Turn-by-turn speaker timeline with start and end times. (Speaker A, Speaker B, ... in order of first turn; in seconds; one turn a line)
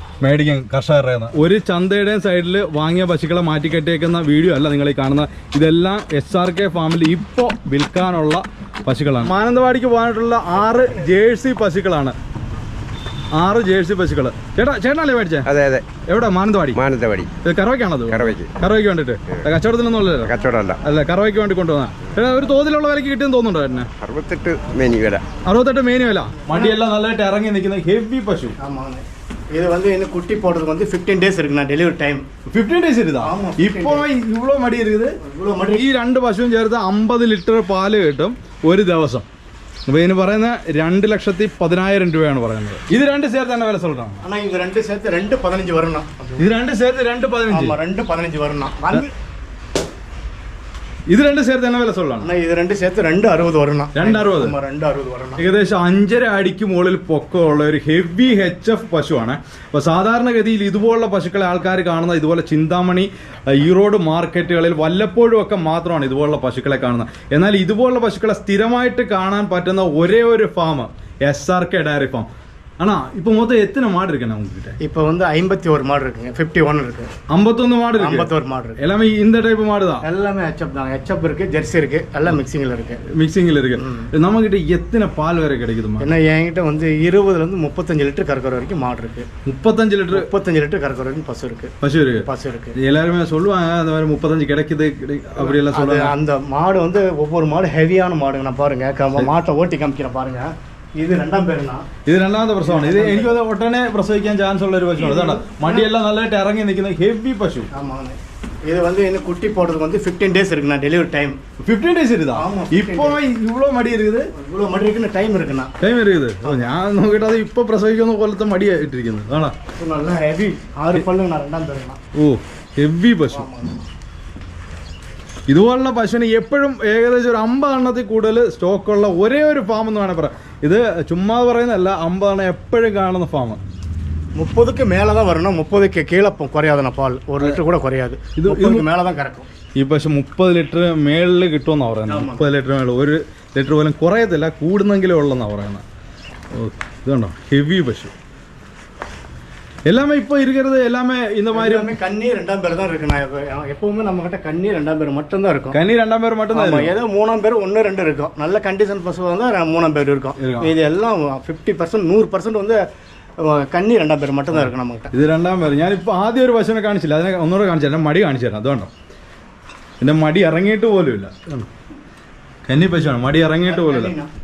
Speaker A: 0.2-12.1
Speaker A: 13.3-15.5
Speaker B: 15.5-15.8
Speaker A: 16.0-16.8
Speaker B: 16.7-17.3
Speaker A: 17.4-23.9
Speaker B: 18.1-18.5
Speaker B: 20.2-20.8
Speaker B: 24.0-25.2
Speaker A: 25.4-28.6
Speaker C: 28.6-32.2
Speaker A: 32.5-39.2
Speaker C: 33.2-34.1
Speaker C: 35.2-35.8
Speaker A: 39.9-44.2
Speaker C: 44.2-46.5
Speaker A: 46.4-47.8
Speaker C: 47.5-49.1
Speaker A: 51.1-52.3
Speaker C: 52.2-55.4
Speaker A: 54.0-54.5
Speaker A: 55.4-72.3
Speaker A: 72.8-74.8
Speaker C: 74.8-77.1
Speaker A: 77.3-80.0
Speaker C: 78.0-78.8
Speaker C: 80.0-83.0
Speaker A: 83.1-86.1
Speaker C: 83.8-84.1
Speaker C: 86.0-89.3
Speaker A: 89.5-90.3
Speaker C: 90.1-91.7
Speaker A: 91.8-96.2
Speaker C: 92.2-92.8
Speaker C: 95.4-101.8
Speaker A: 102.0-107.7
Speaker C: 102.6-103.3
Speaker C: 105.0-105.9
Speaker C: 107.7-111.4
Speaker A: 111.6-114.3
Speaker C: 112.3-113.2
Speaker C: 114.3-115.7
Speaker A: 115.8-119.5
Speaker C: 116.5-116.8
Speaker C: 119.8-122.0
Speaker A: 122.2-123.5
Speaker C: 123.3-123.8
Speaker A: 125.5-133.6
Speaker C: 134.4-139.5
Speaker A: 138.3-138.9
Speaker A: 139.8-145.8
Speaker C: 142.1-142.4
Speaker A: 146.5-148.1
Speaker A: 149.9-151.9
Speaker C: 151.5-155.8
Speaker A: 155.7-157.0
Speaker C: 156.5-162.8
Speaker A: 160.4-160.8
Speaker C: 163.4-165.1
Speaker A: 164.6-168.9
Speaker A: 170.0-171.4
Speaker A: 172.7-174.2
Speaker C: 173.6-174.3